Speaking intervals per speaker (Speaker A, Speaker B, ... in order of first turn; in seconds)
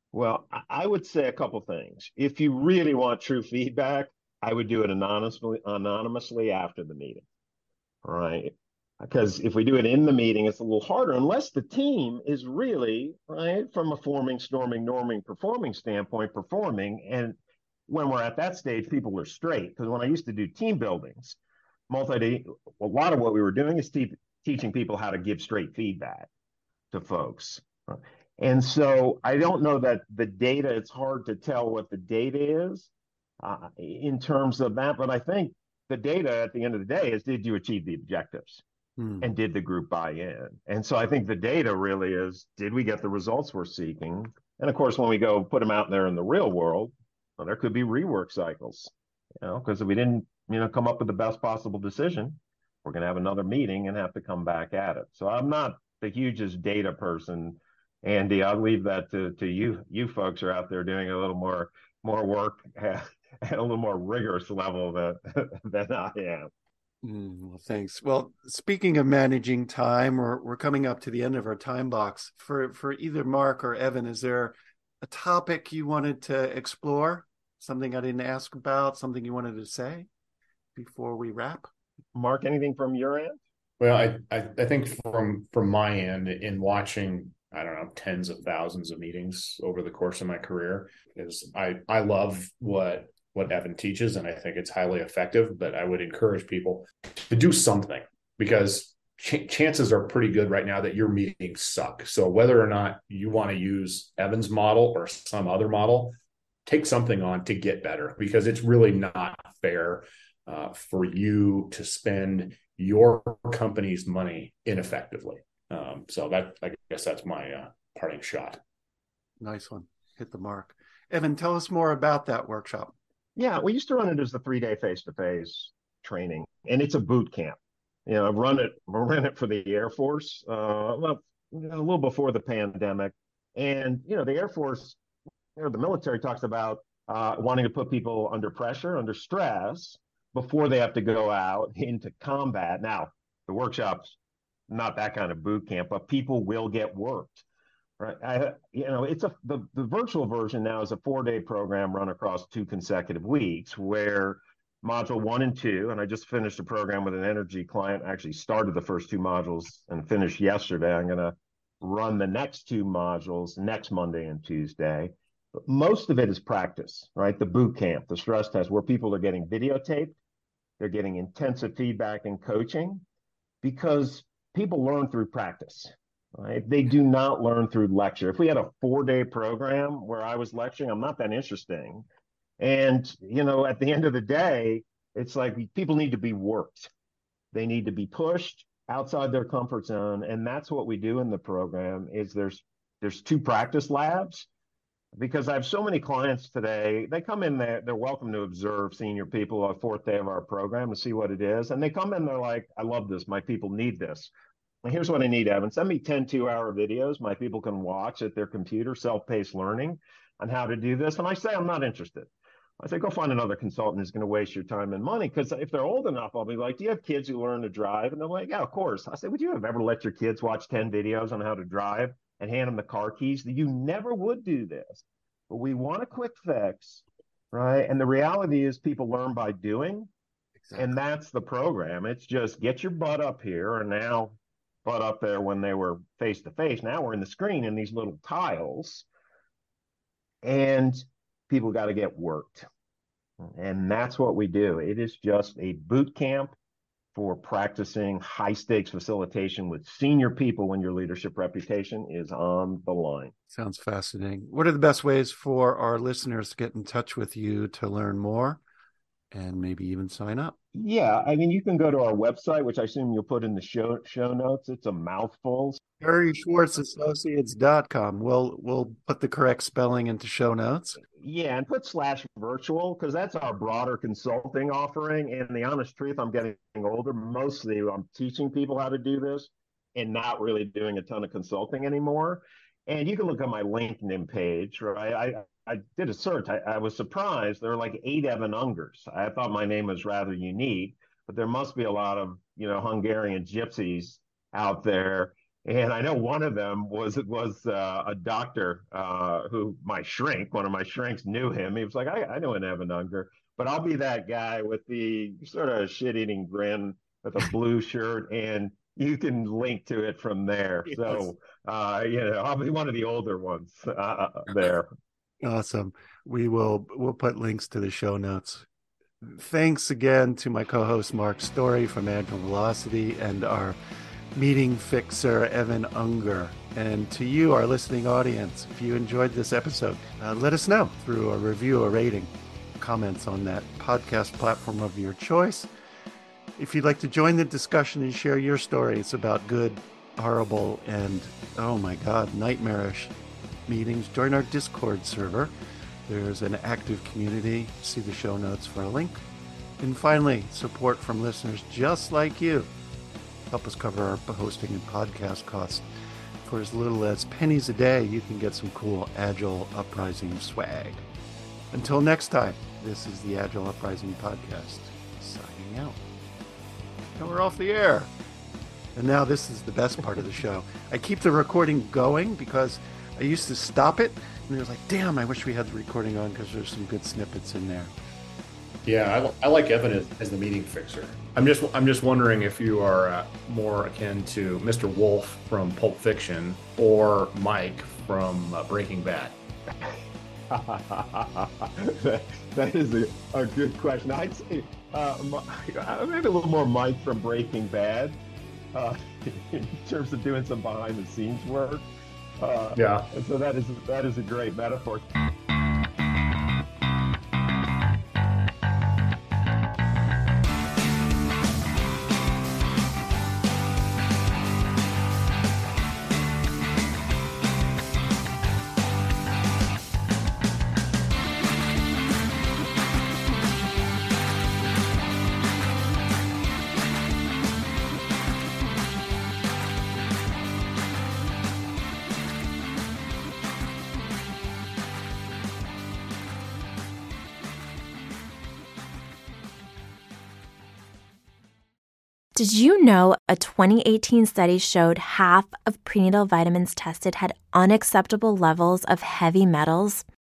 Speaker A: 0.1-7.2, 8.0-17.3, 17.9-21.4, 21.9-26.3, 26.9-32.9, 33.4-38.6, 39.2-66.5, 82.1-83.4, 123.3-135.0, 135.6-144.2, 144.7-147.4, 148.0-165.1, 165.7-170.2, 170.8-173.0, 173.6-182.0, 182.6-186.9, 187.5-194.5, 195.2-204.3, 204.8-230.1, 230.8-239.1, 240.4-242.7, 243.4-246.5, 247.1-253.3, 260.7-265.8, 271.1-314.9, 390.5-398.2, 398.7-401.9, 402.4-405.1
Speaker B: 39.0-39.2, 67.0-80.1, 80.7-81.7, 119.4-122.9, 230.6-230.9, 253.5-258.6, 259.3-260.6, 266.0-271.0, 315.4-318.7, 319.2-323.8, 324.3-335.7, 336.6-343.1, 343.7-345.5, 346.1-349.2, 349.8-352.7, 353.5-355.9, 356.4-361.0, 361.7-366.0, 367.1-368.1, 368.9-377.9
Speaker C: 83.8-106.1, 106.7-118.6, 378.8-389.4, 402.8-403.1
Speaker D: 442.4-450.0